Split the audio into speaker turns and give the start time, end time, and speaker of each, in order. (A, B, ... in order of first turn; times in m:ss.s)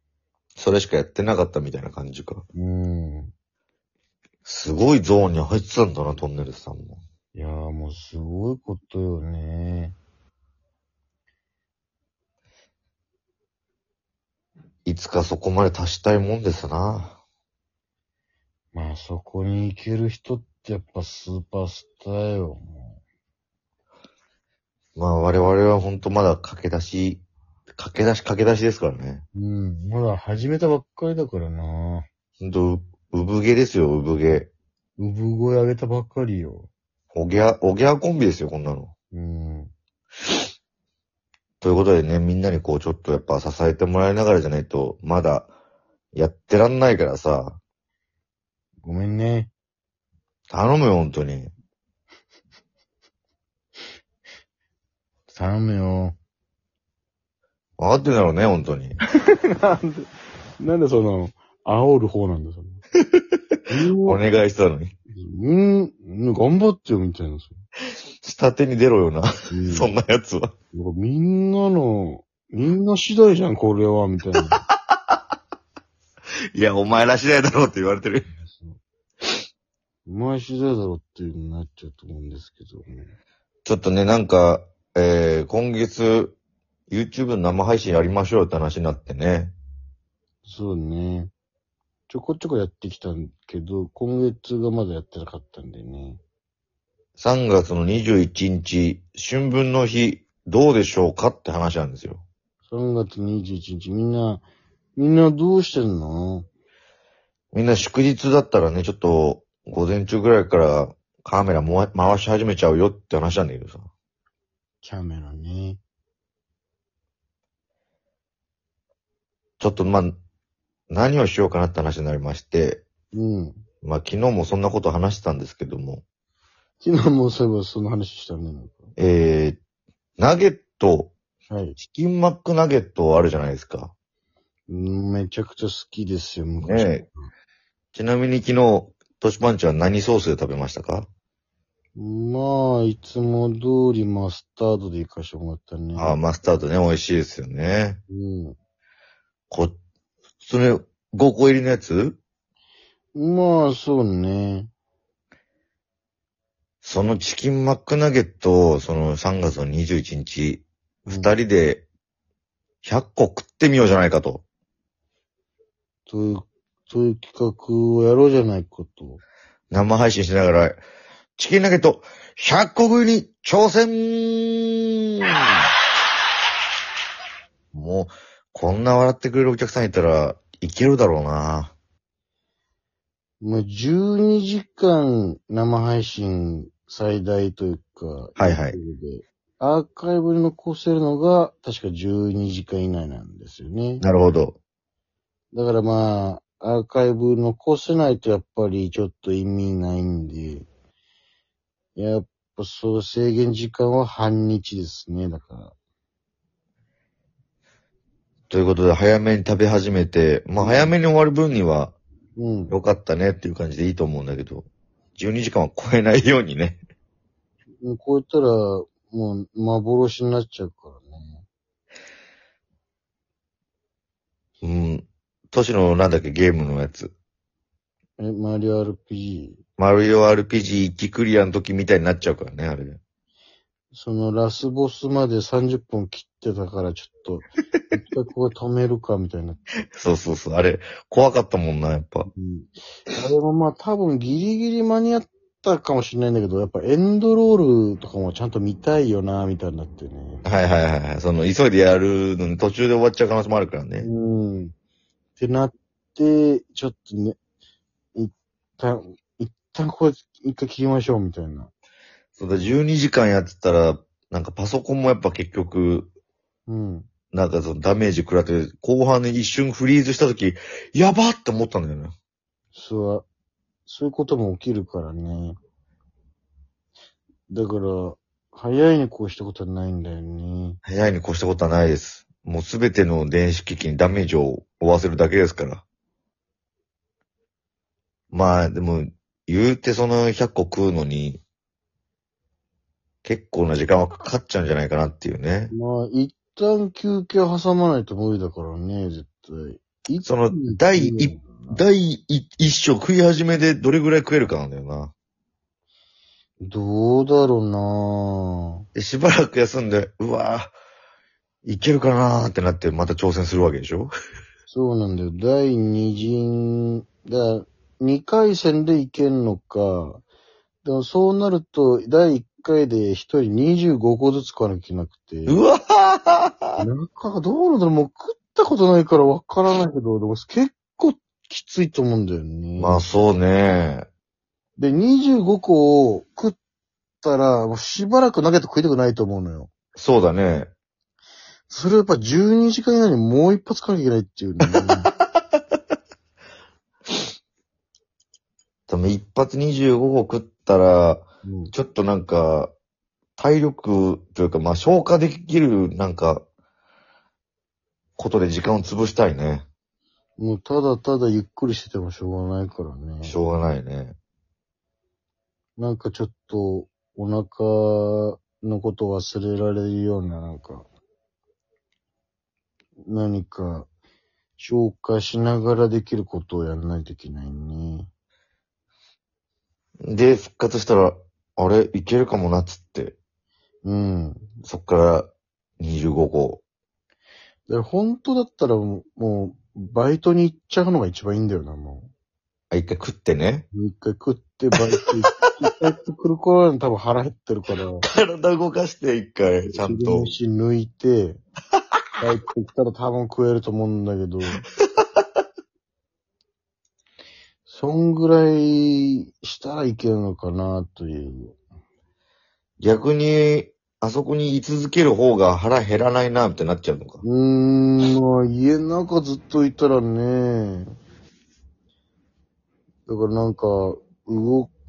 0:00.6-0:02.4 A
0:02.5-0:03.3 B
0:04.4-0:07.0 A
0:07.3-0:10.0 B
0:14.8-0:17.2 A
0:18.7-0:23.0 B
0:25.0-0:27.2 A
0:27.8-0:29.2 A
0:29.3-0:32.0 B
0:32.4-0:34.5 A
0:35.0-0:36.7 B
0:37.1-0:38.9 A
0:39.1-0:39.7 B
0:41.6-0:45.5 A
0:46.1-0:47.6 A
0:48.8-0:49.5 B
0:50.5-0:51.5 A
0:55.3-0:56.2 B
0:57.8-0:59.0 A
0:59.5-1:02.8 B
1:03.7-1:04.2 B
1:04.0-1:04.9 A
1:05.1-1:07.6 B
1:08.2-1:10.5 A
1:09.5-1:09.9 B
1:10.7-1:14.6 B
1:16.5-1:18.2 A
1:18.4-1:18.8 B
1:20.0-1:23.1 B
1:23.6-1:26.4 A
1:26.9-1:29.5 A
1:30.4-1:31.3 B
1:32.1-1:36.2 B
1:37.2-1:42.2 A
1:42.7-1:44.4 B
1:45.0-1:46.5 B
1:47.5-1:53.9 A
1:54.8-1:55.8 B
1:59.6-2:00.2 A
2:00.9-2:02.8 A
2:03.1-2:03.6 B
2:03.8-2:06.0 A
2:06.8-2:08.9 B
2:09.0-2:09.6 A
2:10.2-2:11.1 A
2:11.5-2:11.8 B
2:11.8-2:13.9 A
2:14.7-2:17.3 B
2:16.6-2:17.0 A
2:17.9-2:21.1 A
2:21.9-2:26.2 B
2:25.9-2:28.0 A
2:28.1-2:28.6 B
2:29.5-2:29.8 A
2:30.4-2:32.2 A
2:33.1-2:34.7 B
2:36.8-2:41.8 A
2:41.1-2:41.4 B
2:42.8-2:44.4 A
2:46.1-2:49.2 B
2:49.7-2:50.8 A
2:51.4-2:54.7 A
2:57.7-3:01.7 A
3:03.4-3:14.0 B
3:08.4-3:08.8 A
3:14.0-3:14.6 A
3:15.5-3:20.7 B
3:22.0-3:25.7 B
3:28.5-3:32.0 A
3:30.6-3:30.9 B
3:32.4-3:32.7 B
3:32.7-3:36.8 A
3:37.8-3:41.4 B
3:44.6-3:47.1 A
3:48.2-3:49.6 B
3:49.8-3:53.0 A
3:53.9-3:59.6 B
4:00.0-4:02.3 A
4:02.3-4:10.4 B
4:10.4-4:14.1 A
4:14.0-4:14.7 B
4:15.4-4:17.4 B
4:18.1-4:21.7 B
4:22.3-4:26.1 A
4:26.7-4:27.1 B
4:27.3-4:32.1 A
4:32.7-4:33.2 B
4:33.8-4:35.6 B
4:37.5-4:40.8 B
4:40.8-4:45.8 A
4:48.3-4:51.4 A
4:53.2-4:55.7 A
4:55.7-5:01.8 B
5:00.2-5:05.1 A
5:06.6-5:08.8 B
5:08.9-5:10.7 A
5:11.6-5:14.1 A
5:14.7-5:20.2 B
5:20.8-5:25.6 B
5:25.4-5:26.8 A
5:26.8-5:33.0 B
5:32.8-5:34.1 A
5:34.8-5:36.6 B
5:37.2-5:39.7 B
5:40.0-5:40.7 A
5:41.7-5:45.1 B
5:48.9-5:52.7 A
5:51.4-5:51.7 B
5:53.4-5:56.4 A
5:58.2-5:59.6 A
6:00.4-6:03.4 B
6:03.2-6:04.2 A
6:05.8-6:10.9 B
6:13.1-6:13.9 B
6:14.6-6:18.1 B
6:20.0-6:23.2 A
6:23.8-6:24.5 B
6:24.6-6:26.6 A
6:27.7-6:32.1 B
6:32.7-6:33.7 A
6:33.7-6:38.0 B
6:38.0-6:40.3 A
6:39.7-6:41.4 B
6:42.2-6:44.6 B
6:47.7-6:51.6 B
6:52.8-6:57.2 A
6:57.2-7:01.0 B
7:03.1-7:04.7 B